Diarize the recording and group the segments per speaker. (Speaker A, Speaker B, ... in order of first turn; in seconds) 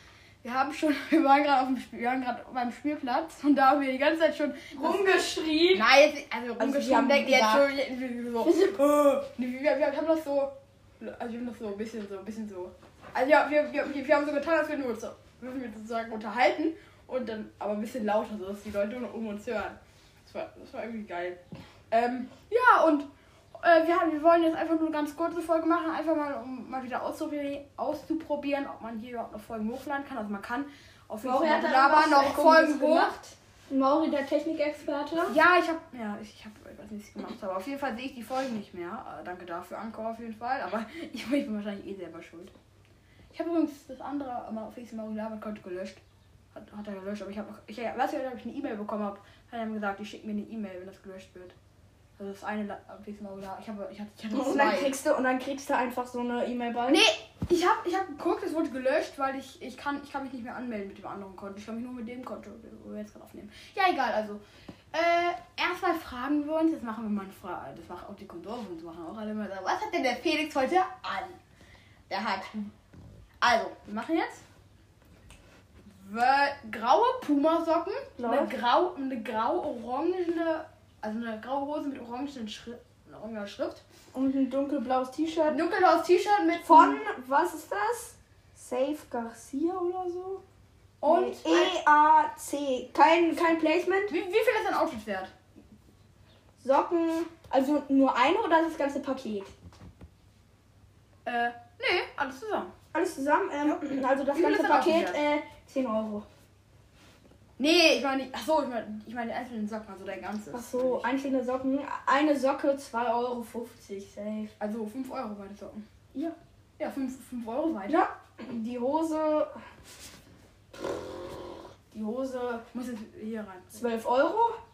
Speaker A: 0.4-5.0, 5.7-33.2, 35.3-42.5, 43.3-46.0, 46.5-51.6, 52.2-55.0, 56.9-64.4, 64.9-71.4, 72.1-72.7, 73.4-74.4, 75.9-83.8, 85.5-87.0, 91.0-91.8, 94.1-95.3, 101.3-102.7, 104.3-105.2, 107.6-111.0, 114.6-115.8, 116.8-118.1, 122.7-123.9
Speaker B: 4.8-5.9, 6.6-7.7, 8.4-9.0, 31.2-35.4, 54.3-57.0, 78.2-78.6, 84.1-85.6, 86.6-90.4, 91.0-94.1, 96.6-99.5, 102.9-106.3, 110.5-114.5, 117.9-119.5, 121.9-122.7, 123.8-124.6